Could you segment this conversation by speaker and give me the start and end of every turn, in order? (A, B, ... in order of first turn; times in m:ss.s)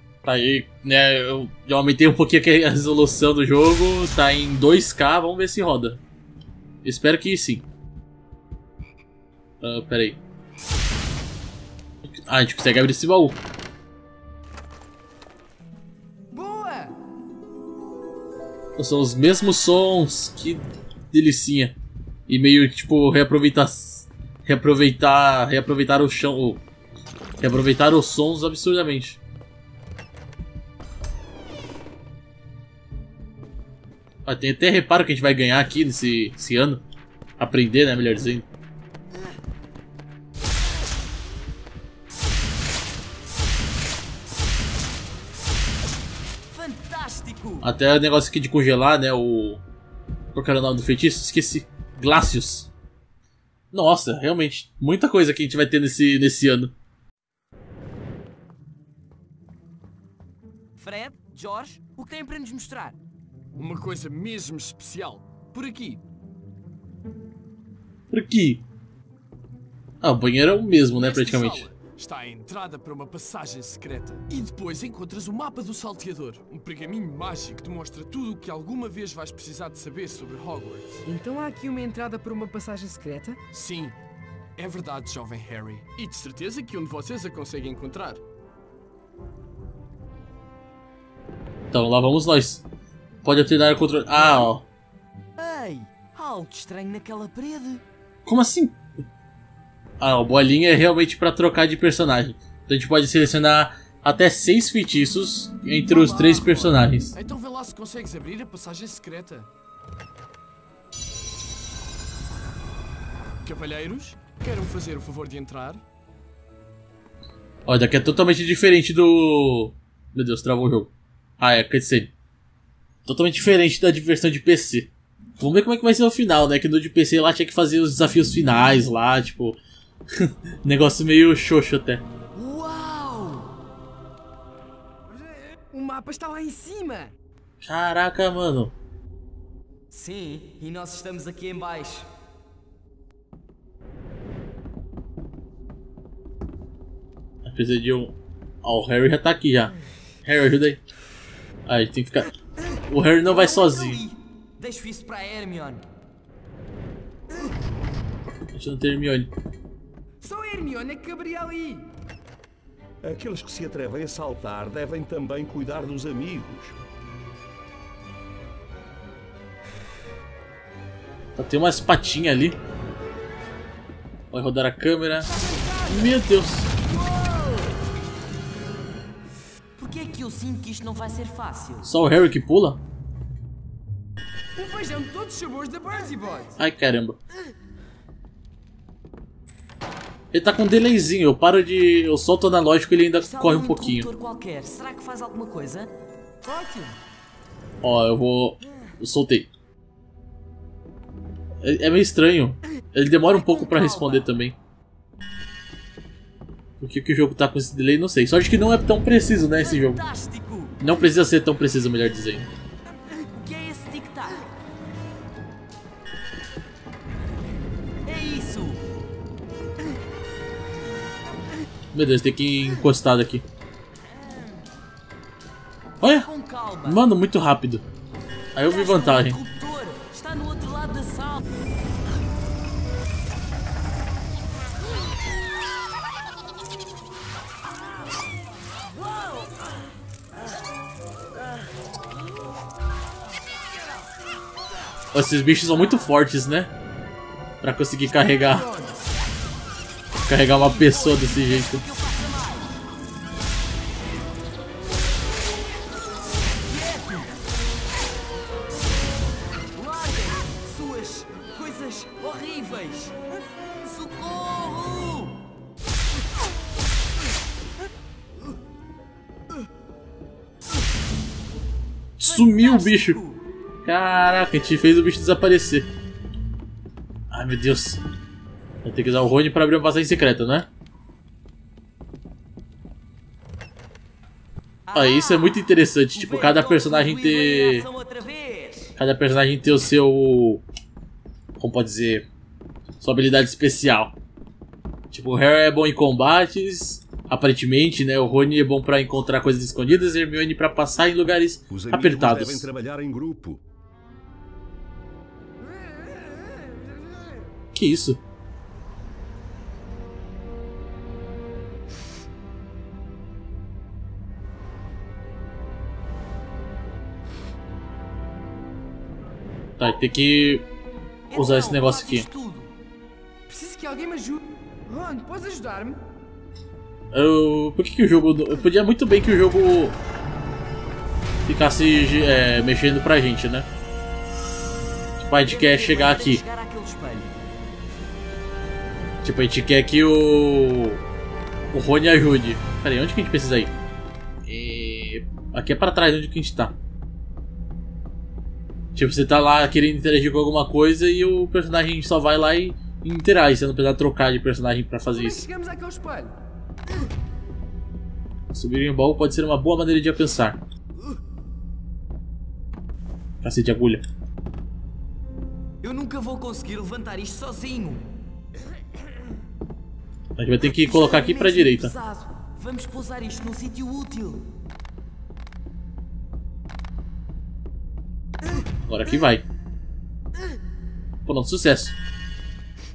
0:00.2-0:06.0 A
0:06.8-0:07.6 A
0:09.6-0:10.2 A
0:12.1-0:13.4 A
0:16.3-0:17.0 B
0:18.8-0:21.8 A
0:22.3-0:26.6 A
0:27.4-0:29.2 A
0:34.2-0:36.8 A
0:37.4-0:38.5 A
0:46.5-0:47.7 C
0:47.6-0:49.6 A
0:50.3-0:52.7 A
0:53.7-0:56.7 A
1:00.8-1:03.0 C
1:03.5-1:06.0 D
1:08.1-1:08.6 A
1:10.0-1:11.7 A
1:10.9-1:21.0 D
1:21.0-1:23.4 B
1:23.5-1:24.0 D
1:24.6-1:28.2 D
1:31.7-1:32.6 A
1:33.2-1:34.6 A
1:35.4-1:37.8 C
1:38.2-1:38.8 A
1:40.0-1:47.1 A
1:45.9-1:49.5 D
1:53.4-1:55.8 D
1:57.7-2:02.1 A
2:03.0-2:09.6 A
2:10.2-2:12.0 A
2:12.3-2:13.5 C
2:15.7-2:17.2 B
2:17.6-2:18.7 A
2:19.9-2:22.1 C
2:27.4-2:29.7 A
2:30.2-2:30.8 A
2:31.7-2:32.3 A
2:32.9-2:34.0 A
2:33.2-2:35.8 C
2:38.5-2:39.3 A
2:40.2-2:41.9 B
2:43.0-2:46.8 E
2:51.4-2:52.6 A
2:54.3-2:55.3 A
2:55.3-2:56.2 B
2:55.9-2:56.7 A
2:56.9-2:57.4 B
2:59.8-3:01.9 C
3:01.8-3:02.8 A
3:04.6-3:06.6 B
3:06.6-3:07.2 A
3:10.3-3:14.1 A
3:13.2-3:15.9 C
3:16.4-3:17.0 B
3:17.8-3:19.5 A
3:21.6-3:24.6 A
3:23.2-3:24.3 C
3:26.8-3:30.0 A
3:29.6-3:30.8 C
3:30.8-3:32.5 A
3:33.3-3:34.5 C
3:38.0-3:38.8 C
3:41.9-3:43.4 A
3:44.0-3:44.6 C
3:46.0-3:46.3 A
3:46.0-3:47.0 C
3:46.8-3:47.8 A
3:48.5-3:49.4 A
3:48.7-3:51.4 C
3:59.2-3:59.5 C
4:05.1-4:06.7 A
4:07.6-4:08.7 A
4:08.2-4:09.0 B
4:10.2-4:11.8 A
4:10.3-4:12.8 C
4:16.6-4:17.3 C
4:19.8-4:23.2 C
4:23.8-4:25.4 C
4:32.2-4:33.2 A
4:32.2-4:33.4 C
4:33.8-4:35.9 A
4:37.3-4:38.0 A
4:38.8-4:40.7 A
4:44.9-4:49.0 C
4:44.9-4:47.9 A
4:49.0-4:50.6 A
4:51.6-4:52.3 A
4:53.0-4:54.2 A
4:55.1-5:02.7 A
5:01.7-5:03.6 E
5:07.7-5:08.2 A
5:19.8-5:20.7 A
5:21.3-5:22.7 C
5:21.3-5:22.2 A
5:23.5-5:26.0 B
5:27.1-5:30.0 A
5:31.5-5:33.7 A
5:35.2-5:36.4 A
5:35.4-5:37.4 C
5:39.2-5:41.0 A
5:41.7-5:43.7 A
5:44.5-5:46.8 A
5:49.0-5:55.4 A
5:55.1-5:56.3 B
5:58.5-6:00.6 A
6:03.4-6:04.0 A
6:05.8-6:08.1 C
6:10.4-6:11.9 A
6:10.6-6:14.5 C
6:18.9-6:19.4 A
6:21.2-6:22.0 A